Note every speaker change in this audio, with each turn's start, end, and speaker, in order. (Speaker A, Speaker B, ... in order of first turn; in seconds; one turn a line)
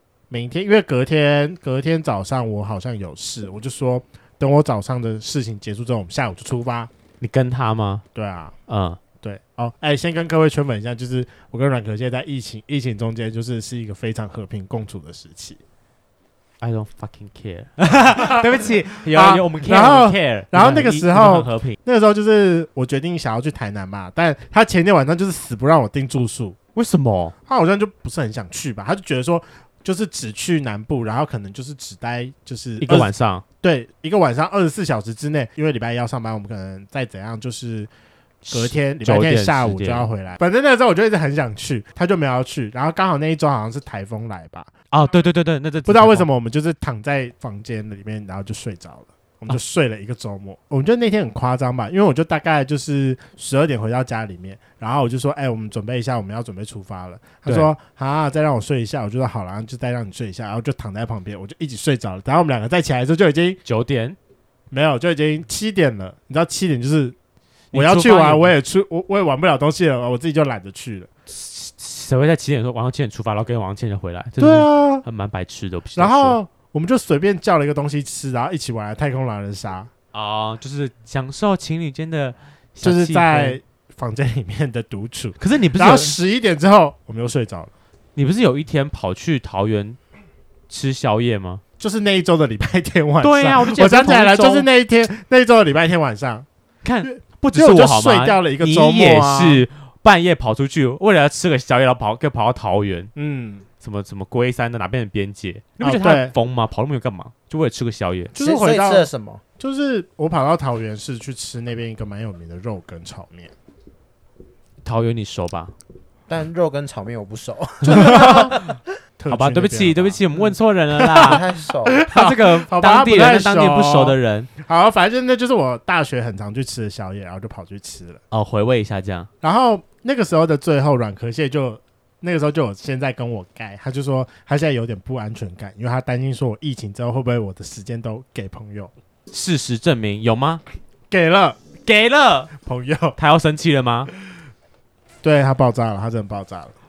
Speaker A: 0.3-6.9
Speaker B: 7.2-8.0
Speaker A: 8.1-8.5
Speaker B: 8.7-9.0
Speaker A: 9.2-15.6
Speaker B: 16.6-21.8
Speaker A: 18.1-26.6
Speaker B: 26.7-27.3
Speaker A: 27.5-33.1
Speaker B: 32.8-33.4
Speaker A: 33.6-37.9
Speaker B: 38.4-40.1
Speaker A: 38.5-44.7
Speaker B: 44.9-46.3
Speaker A: 45.9-63.6
Speaker B: 57.5-57.7
Speaker B: 63.6-64.2
Speaker A: 64.7-67.2
Speaker B: 67.7-68.5
Speaker A: 67.7-71.1
Speaker B: 71.3-76.4
Speaker A: 74.4-75.0
Speaker A: 76.0-79.9
Speaker B: 80.1-83.6
Speaker A: 82.8-87.7
Speaker B: 85.4-86.2
Speaker B: 88.2-90.0
Speaker B: 90.7-91.6
Speaker A: 91.8-96.5
Speaker B: 93.2-94.7
Speaker B: 96.8-103.1
Speaker A: 97.0-99.6
Speaker A: 103.2-103.7
Speaker B: 103.8-108.3
Speaker A: 105.8-106.3
Speaker A: 108.3-113.5
Speaker C: 108.3-109.4
Speaker B: 114.8-115.7
Speaker C: 116.3-118.7
Speaker B: 117.8-118.7
Speaker A: 117.9-118.6
Speaker A: 119.2-120.2
Speaker B: 119.3-121.4
Speaker A: 121.0-128.2
Speaker C: 121.1-122.0
Speaker B: 122.1-124.5
Speaker B: 128.3-129.3
Speaker A: 129.4-138.9
Speaker B: 139.3-140.6
Speaker A: 141.1-141.6
Speaker B: 141.8-142.5
Speaker A: 142.6-143.2
Speaker B: 143.2-144.1
Speaker A: 145.2-146.7